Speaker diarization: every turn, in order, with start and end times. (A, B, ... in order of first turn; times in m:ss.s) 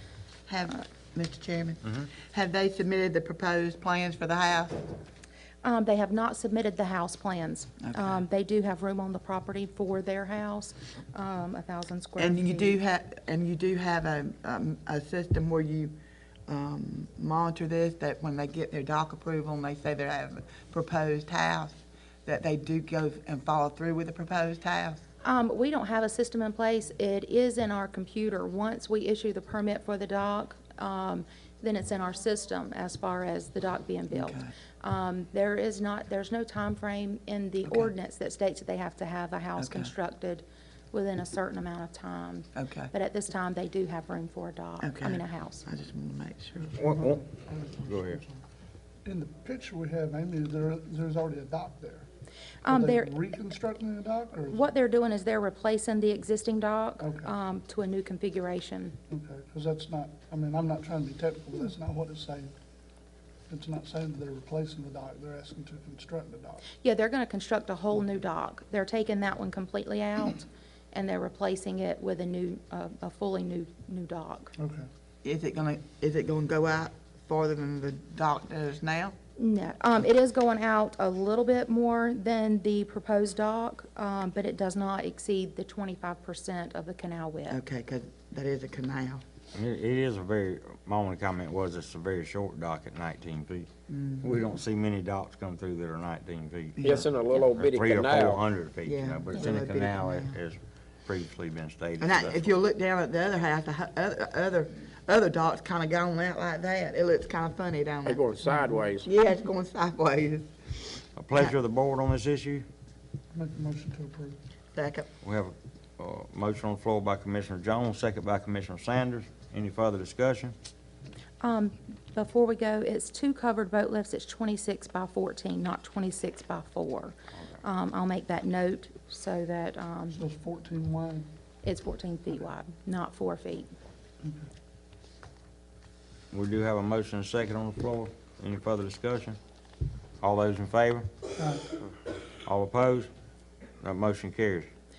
0:00.5-0:04.9 A
0:05.6-0:12.8 B
0:12.2-0:15.9 A
0:16.5-0:25.0 A
0:25.2-0:45.6 B
0:34.1-0:34.5 A
0:39.6-0:39.9 A
0:42.5-0:42.9 A
0:44.8-0:46.8 A
0:46.8-0:47.2 C
0:47.1-0:48.2 D
0:47.8-0:48.2 C
0:49.0-0:52.0 D
0:52.6-0:53.1 B
0:52.7-0:54.6 D
0:54.5-0:59.0 B
0:57.0-0:57.3 D
0:59.1-1:02.5 D
1:03.5-1:06.6 D
1:06.8-1:14.5 B
1:14.6-1:14.8 D
1:15.2-1:19.1 A
1:19.4-1:27.6 B
1:27.5-1:29.2 A
1:29.5-1:33.7 C
1:33.9-1:34.4 A
1:34.2-1:42.4 C
1:36.9-1:38.3 E
1:38.8-1:40.4 A
1:42.0-1:48.3 A
1:48.1-1:49.0 E
1:49.0-1:51.5 A
1:51.2-1:52.6 C
1:53.3-1:54.4 D
1:54.7-1:55.1 A
1:55.2-2:00.5 C
2:01.4-2:10.2 B
2:10.2-2:11.3 D
2:11.6-2:13.7 B
2:16.3-2:19.4 C
2:20.2-2:21.1 C
2:22.4-2:23.1 C
2:23.8-2:24.7 C